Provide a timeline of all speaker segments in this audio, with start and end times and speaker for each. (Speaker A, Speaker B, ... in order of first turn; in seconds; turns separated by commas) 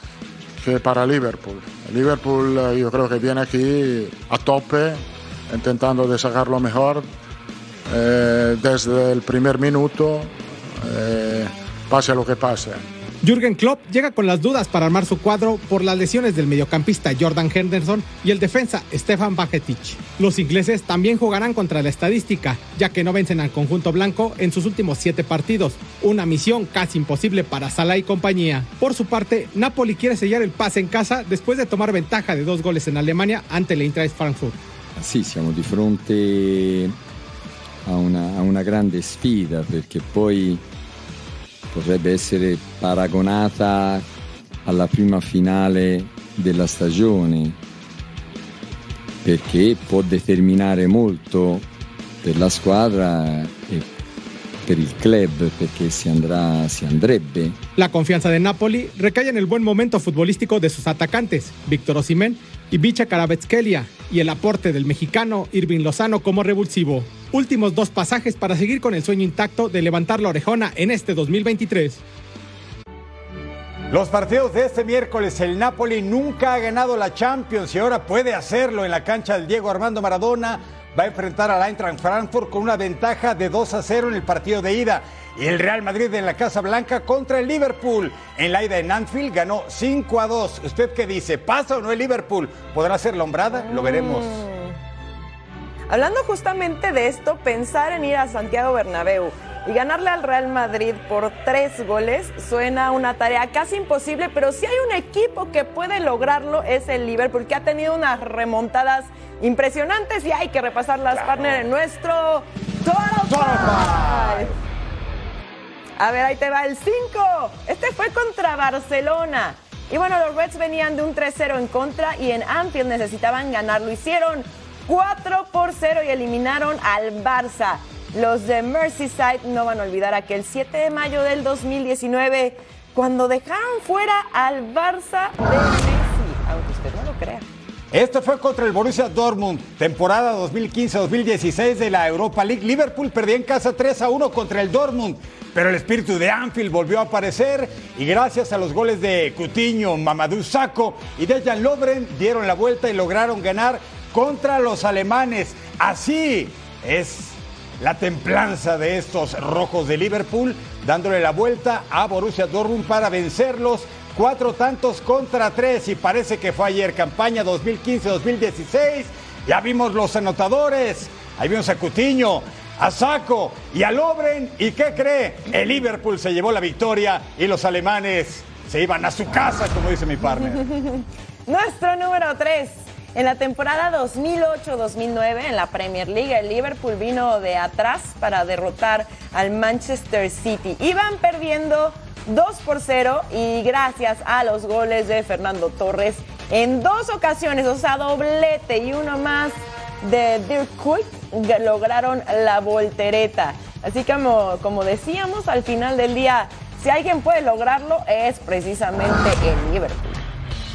Speaker A: 0.6-7.1, Speaker A: 7.9-12.8, Speaker B: 13.2-34.6, Speaker C: 35.0-37.0, Speaker C: 37.9-40.6, Speaker C: 41.7-44.0, Speaker C: 44.6-47.6, Speaker C: 49.2-51.6, Speaker C: 52.2-53.9, Speaker C: 54.6-57.6, Speaker B: 57.8-72.0, Speaker D: 73.9-94.4, Speaker E: 93.6-94.8, Speaker E: 95.9-114.5, Speaker D: 113.3-114.6, Speaker E: 116.0-137.5, Speaker D: 137.9-180.6, Speaker E: 180.2-210.2